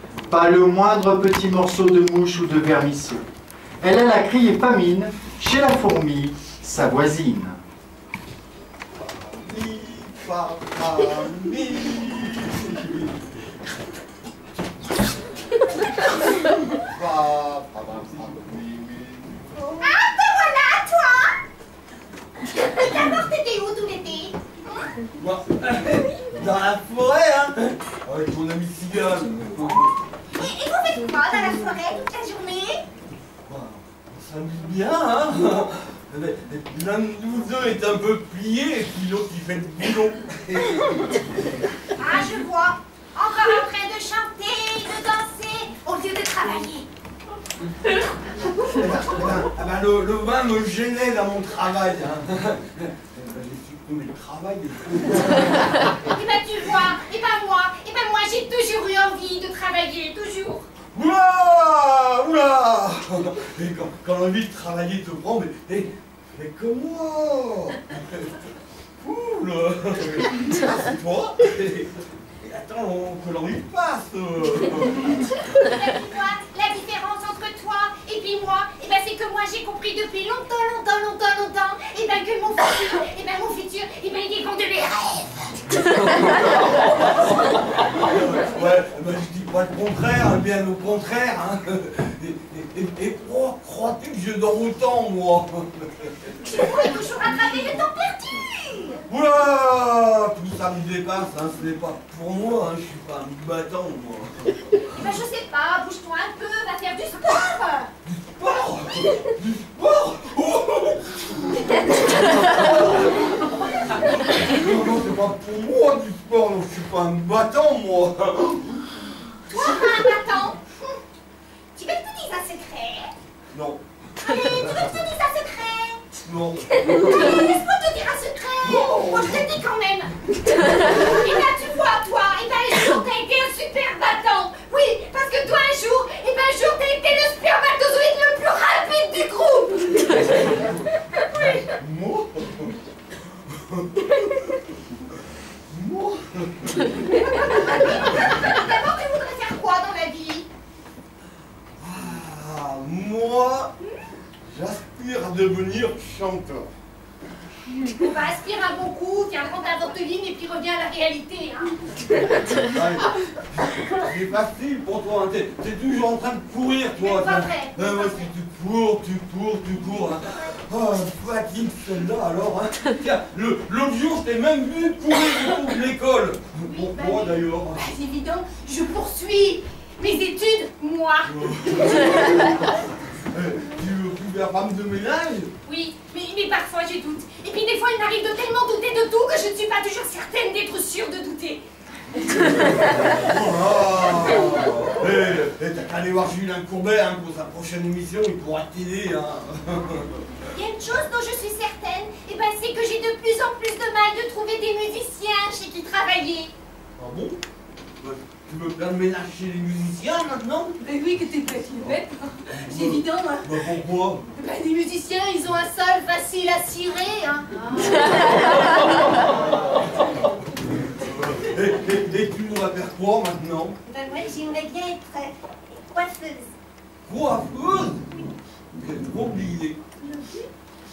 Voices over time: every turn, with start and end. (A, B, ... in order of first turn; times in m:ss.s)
0:00.3-0:03.2 A
0:03.8-0:07.6 A
0:09.0-0:13.2 B
0:16.8-0:19.9 B
0:19.8-0:21.4 C
0:22.5-0:24.9 C
0:25.1-0:30.0 B
0:30.3-0:32.8 C
0:33.5-0:41.0 B
0:42.0-0:46.9 C
0:48.6-0:55.9 B
0:56.0-1:00.6 C
1:00.9-1:08.4 B
1:09.0-1:15.2 B
1:15.5-1:26.3 C
1:26.7-1:36.7 B
1:36.5-1:39.0 C
1:39.1-1:44.6 B
1:44.9-1:47.9 C
1:48.0-1:53.2 B
1:54.3-1:58.9 B
1:59.5-2:01.0 C
2:01.7-2:03.1 C
2:03.5-2:04.9 B
2:04.2-2:06.0 C
2:06.2-2:07.3 B
2:06.8-2:20.6 C
2:08.6-2:09.5 B
2:21.2-2:21.7 C
2:21.7-2:22.8 B
2:23.5-2:24.5 B
2:25.7-2:27.0 B
2:27.0-2:30.5 C
2:31.8-2:33.7 B
2:34.4-2:36.7 B
2:37.8-2:41.8 C
2:42.4-2:57.9 B
2:47.0-2:48.3 C
2:56.7-3:02.7 C
3:01.2-3:02.7 B
3:03.3-3:05.5 B
3:05.6-3:11.6 C
3:12.4-3:13.2 C
3:12.4-3:20.2 B
3:20.5-3:26.5 C
3:27.0-3:27.4 B
3:28.0-3:30.8 B
3:30.8-3:33.7 C
3:32.5-3:34.2 B
3:34.3-3:39.3 C
3:39.3-3:39.8 B
3:40.9-3:43.8 B
3:43.8-3:46.5 C
3:47.0-3:48.1 B
3:48.7-3:49.8 B
3:50.0-3:50.4 C